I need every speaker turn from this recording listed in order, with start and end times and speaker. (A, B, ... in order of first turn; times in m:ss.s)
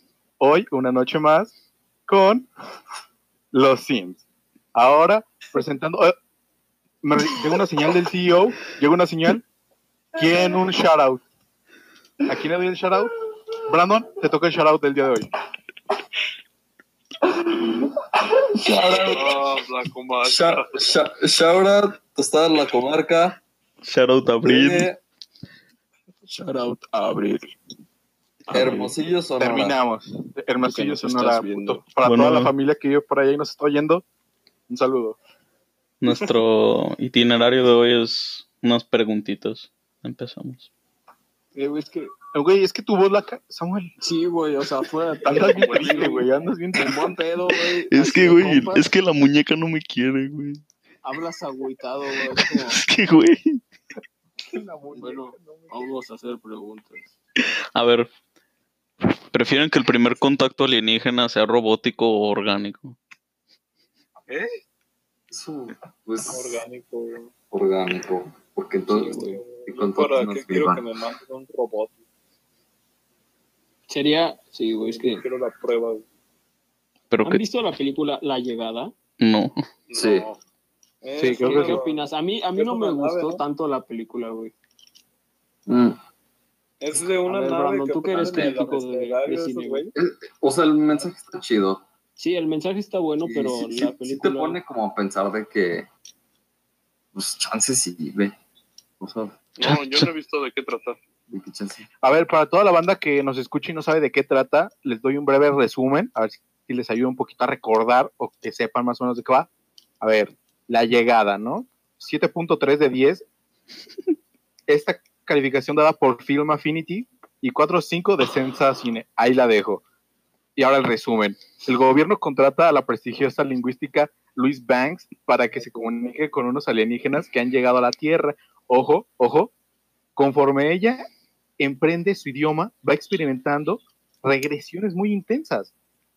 0:00.4-0:01.5 A
0:02.1-0:02.4 A
0:03.5-0:04.2 A
0:04.7-0:06.1 A
0:07.0-0:09.4 A
0:10.2-0:11.2 A
0:12.3-0:13.1 A
0:13.7-0:15.3 A
0:18.6-0:19.5 B
0:19.0-0:20.8 C
0:20.2-0:23.4 B
0:23.8-0:24.9 D
0:24.4-0:25.0 B
0:26.3-0:27.5 E
0:28.5-0:29.8 B
0:29.4-0:34.0 A
0:30.6-0:31.8 E
0:32.0-0:32.5 D
0:34.7-0:35.2 A
0:36.0-0:40.7 D
0:41.5-0:42.1 E
0:42.3-0:43.9 A
0:44.0-0:48.9 E
0:45.2-0:46.3 C
0:45.2-0:47.2 A
0:47.7-0:50.6 D
0:51.0-0:52.8 E
0:52.3-0:53.6 D
0:54.5-0:55.8 A
0:55.0-0:57.1 E
0:57.4-0:58.1 D
0:59.3-1:03.0 D
1:04.3-1:04.6 C
1:05.3-1:06.6 B
1:06.3-1:07.3 F
1:07.5-1:10.8 B
1:08.9-1:09.4 E
1:09.2-1:12.0 F
1:13.9-1:15.2 E
1:14.9-1:16.0 F
1:17.1-1:17.4 D
1:17.2-1:18.9 E
1:19.2-1:19.6 D
1:19.9-1:20.4 C
1:19.9-1:20.3 B
1:21.0-1:23.4 F
1:21.2-1:21.8 A
1:21.4-1:24.5 E
1:25.7-1:26.0 B
1:26.8-1:29.9 F
1:27.2-1:29.9 E
1:28.1-1:28.5 B
1:29.9-1:31.8 B
1:32.2-1:34.6 E
1:33.2-1:35.9 B
1:37.1-1:38.4 B
1:39.0-1:39.4 B
1:39.6-1:41.0 C
1:39.6-1:40.1 D
1:41.3-1:41.9 B
1:42.0-1:49.5 A
1:50.0-1:53.2 A
1:54.7-1:59.8 A
2:00.6-2:09.5 A
2:10.2-2:11.0 A
2:11.6-2:15.7 A